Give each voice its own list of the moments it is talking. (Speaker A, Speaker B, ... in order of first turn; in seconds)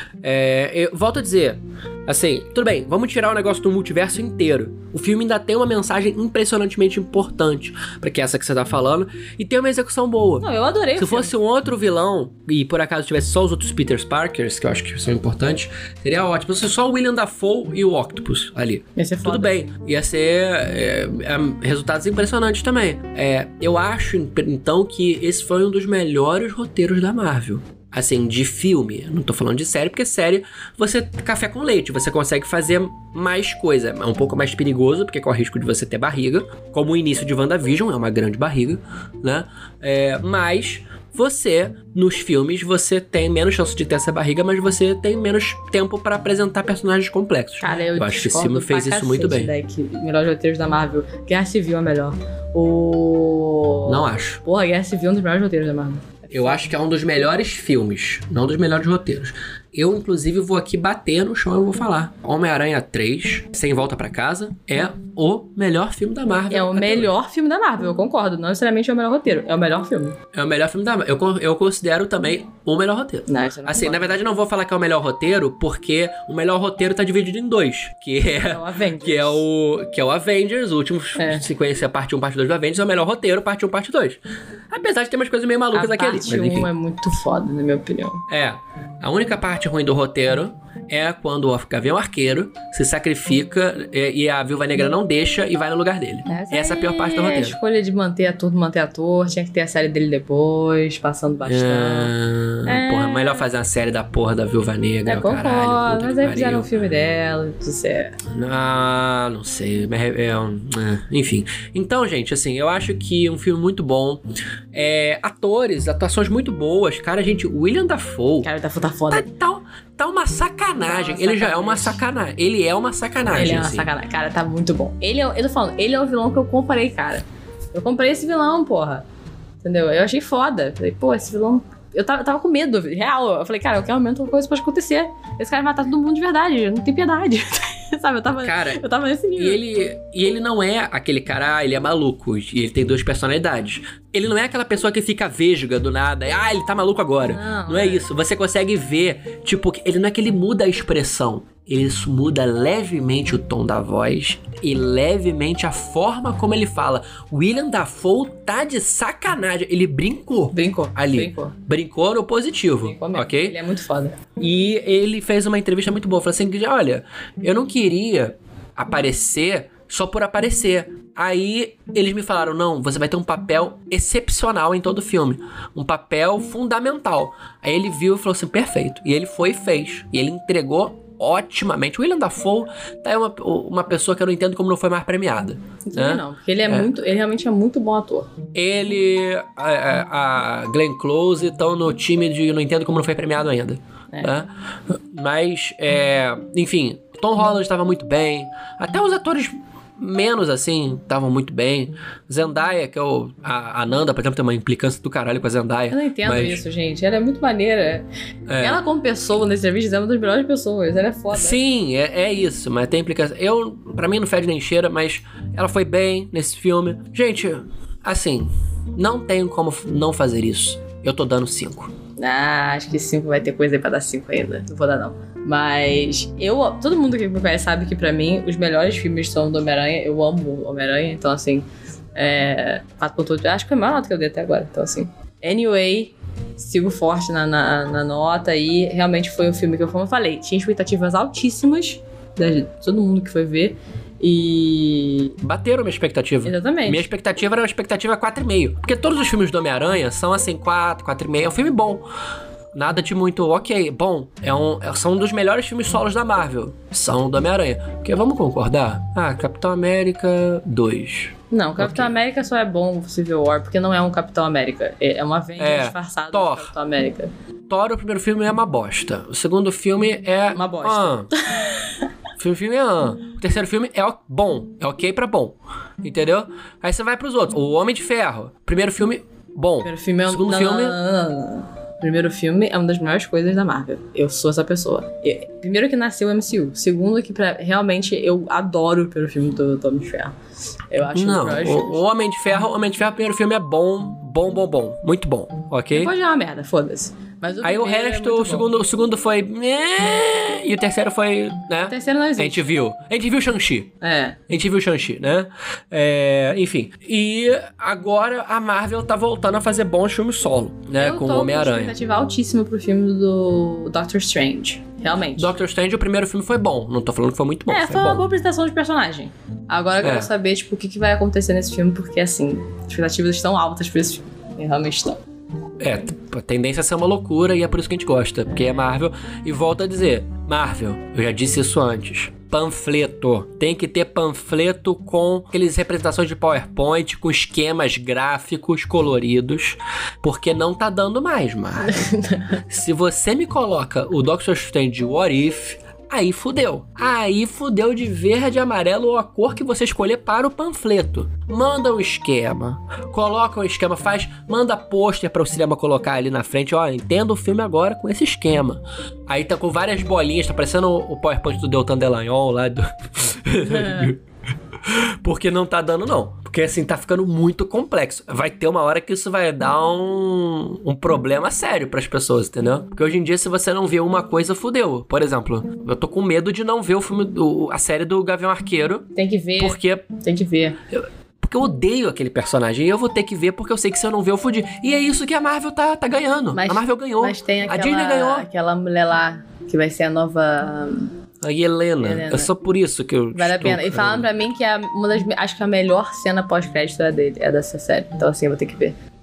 Speaker A: 0.2-49.5, 53.9-54.4, 56.3-67.1, 70.3-86.7, 88.3-97.6, 101.4-106.7, 108.2-118.5, 119.1-123.9, 138.4-138.8, 139.4-163.6, 164.4-186.9, 188.5-194.5, 195.1-206.6, 208.5-208.8, 211.3-221.9, 245.4-252.0, 252.7-262.1, 265.6-266.7, 267.7-271.3, 272.4-281.0, 291.1-296.1, 297.6-303.9, 304.5-311.9, 315.3-318.3, 320.0-320.3, 325.8-342.1, 342.7-364.2, 364.8-379.1, 379.6-380.0, 380.9-388.5, 391.4-394.3
Speaker B: 10.4-11.3, 18.9-19.7, 47.6-56.6, 66.5-70.2, 73.3-74.2, 78.3-79.4, 81.2-81.4, 85.7-88.2, 96.3-102.1, 102.6-103.4, 105.0-108.2, 118.4-119.2, 120.8-122.0, 123.3-129.0, 129.6-139.6, 147.3-148.1, 160.5-161.5, 162.8-164.2, 185.8-188.3, 205.9-208.1, 208.6-211.6, 222.2-245.4, 246.4-247.1, 261.5-267.3, 270.5-272.0, 279.8-290.3, 290.9-292.0, 295.9-298.7, 301.9-302.7, 304.0-304.4, 311.0-315.5, 317.7-325.2, 341.8-342.6, 363.7-364.1, 379.1-380.8, 386.5-391.1, 392.0-392.5, 393.3-398.9